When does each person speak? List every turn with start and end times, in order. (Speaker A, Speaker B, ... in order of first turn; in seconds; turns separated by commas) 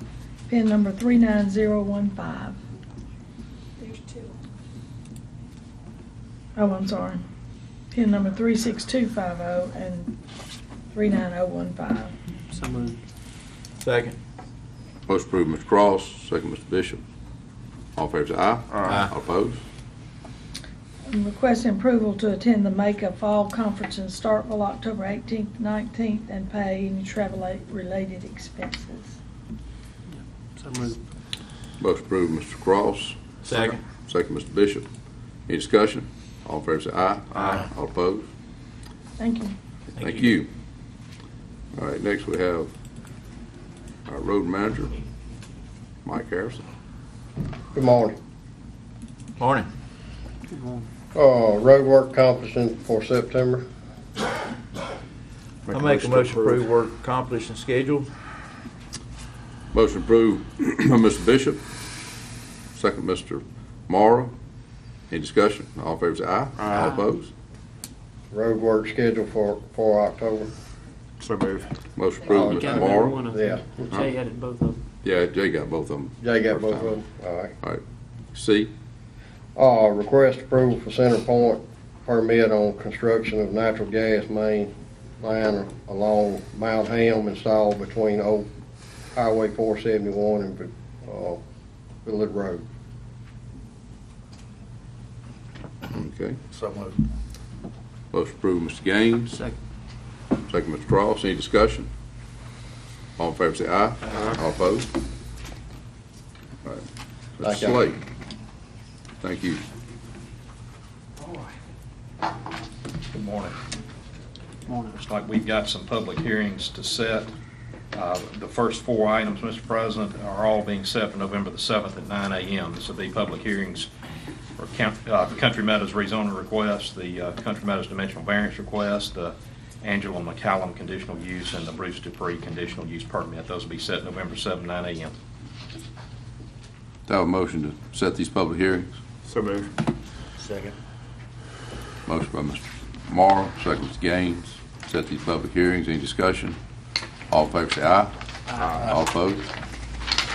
Speaker A: 0.5-2.6, Speaker A: 3.8-4.3, Speaker A: 6.6-7.2, Speaker A: 7.9-10.2, Speaker A: 10.9-12.1, Speaker B: 12.5-13.0, Speaker C: 13.8-14.2, Speaker D: 15.1-17.0, Speaker D: 18.0-19.6, Speaker E: 18.7-19.1, Speaker A: 21.1-29.2, Speaker B: 30.6-31.0, Speaker D: 31.8-34.9, Speaker C: 33.4-33.8, Speaker D: 35.5-38.2, Speaker A: 39.2-39.6, Speaker C: 40.0-40.3, Speaker D: 40.0-40.5, Speaker D: 41.8-42.7, Speaker D: 44.1-44.9, Speaker D: 46.0-46.6, Speaker F: 47.7-48.2, Speaker C: 49.4-49.7, Speaker B: 50.5-50.9, Speaker F: 51.1-53.7, Speaker D: 55.7-56.6, Speaker C: 55.7-58.1, Speaker D: 59.7-61.6, Speaker D: 62.7-64.3, Speaker D: 65.1-67.3, Speaker E: 66.6-66.9, Speaker F: 68.3-70.5, Speaker E: 71.2-71.7, Speaker D: 72.0-73.2, Speaker F: 72.3-74.0, Speaker B: 72.3-74.8, Speaker D: 75.0-77.0, Speaker F: 76.2-77.5, Speaker D: 78.3-78.7, Speaker F: 79.6-88.5, Speaker F: 89.2-91.4, Speaker F: 92.0-92.6, Speaker D: 95.9-96.4, Speaker D: 98.1-99.4, Speaker D: 100.5-101.9, Speaker D: 103.2-104.9, Speaker D: 107.4-108.0, Speaker F: 107.4-107.8, Speaker D: 109.2-109.6, Speaker G: 113.1-113.6, Speaker B: 114.7-115.0, Speaker G: 115.1-117.3, Speaker G: 117.9-123.9, Speaker G: 124.6-135.2, Speaker D: 137.1-138.9, Speaker E: 139.3-139.7, Speaker D: 142.1-146.6, Speaker D: 147.3-148.1, Speaker E: 148.6-148.9, Speaker D: 148.8-149.5